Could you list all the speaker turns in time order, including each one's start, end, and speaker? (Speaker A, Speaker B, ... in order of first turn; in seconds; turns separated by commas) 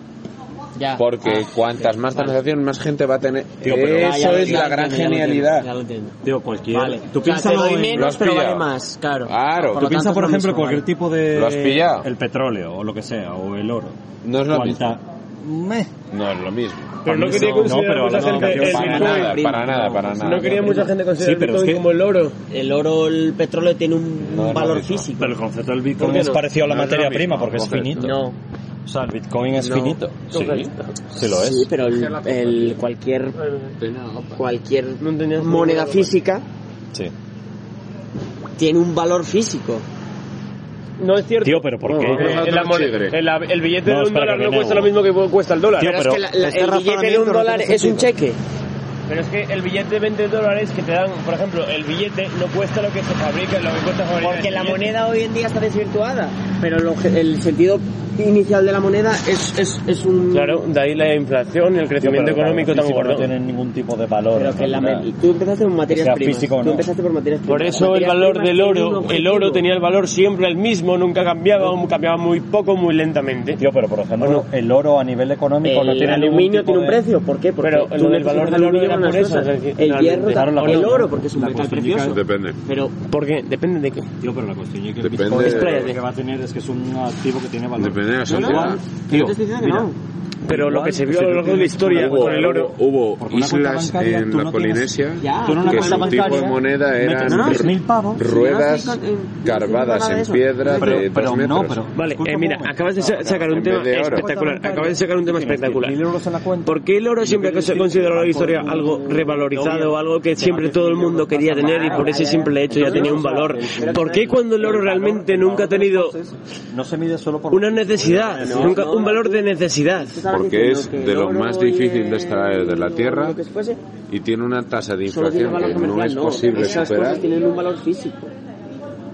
Speaker A: 0.7-2.4, Speaker B: 0.9-5.7, Speaker C: 3.6-4.7, Speaker A: 3.8-10.9, Speaker C: 6.2-8.2, Speaker B: 7.9-8.7, Speaker B: 9.2-9.9, Speaker C: 9.7-14.0, Speaker B: 11.3-12.1, Speaker B: 14.2-15.0, Speaker C: 14.5-15.9, Speaker B: 16.1-17.0, Speaker D: 17.0-19.4, Speaker C: 17.0-19.3, Speaker A: 18.2-20.9, Speaker B: 18.4-20.7, Speaker C: 20.0-21.8, Speaker D: 20.2-22.4, Speaker A: 22.5-25.4, Speaker B: 24.2-25.1, Speaker C: 25.2-28.2, Speaker D: 26.0-26.4, Speaker B: 26.6-28.2, Speaker A: 28.0-28.4, Speaker C: 28.9-31.7, Speaker A: 29.5-30.0, Speaker D: 30.3-30.9, Speaker A: 31.2-33.4, Speaker B: 31.8-32.8, Speaker D: 33.4-33.7, Speaker B: 33.8-34.4, Speaker A: 34.4-36.5, Speaker D: 35.0-36.1, Speaker A: 38.6-39.9, Speaker D: 41.0-48.0, Speaker C: 41.4-42.5, Speaker B: 41.9-43.2, Speaker C: 43.8-44.9, Speaker C: 45.8-46.5, Speaker A: 45.8-48.4, Speaker D: 49.1-54.8, Speaker A: 54.2-60.6, Speaker D: 60.3-63.3, Speaker C: 62.0-65.1, Speaker A: 64.3-69.6, Speaker C: 65.9-66.9, Speaker D: 67.5-73.6, Speaker C: 73.6-77.0, Speaker D: 74.2-74.5, Speaker A: 75.6-83.0, Speaker D: 77.6-81.0, Speaker C: 80.3-82.2, Speaker B: 82.0-82.6, Speaker D: 83.1-84.1, Speaker C: 84.2-89.9, Speaker B: 85.0-85.9, Speaker D: 85.4-86.0, Speaker B: 87.8-88.8, Speaker A: 88.3-90.0, Speaker D: 90.4-92.7, Speaker C: 90.5-92.6, Speaker B: 91.9-101.8, Speaker C: 93.2-98.2, Speaker A: 95.2-96.6, Speaker A: 97.2-101.1, Speaker C: 100.8-114.1, Speaker D: 101.9-106.0, Speaker B: 103.5-104.2, Speaker D: 106.7-116.1, Speaker A: 109.5-114.8, Speaker C: 114.6-118.9, Speaker D: 117.5-120.2, Speaker A: 118.4-123.8, Speaker B: 120.3-123.4, Speaker B: 124.1-127.2, Speaker A: 125.0-128.3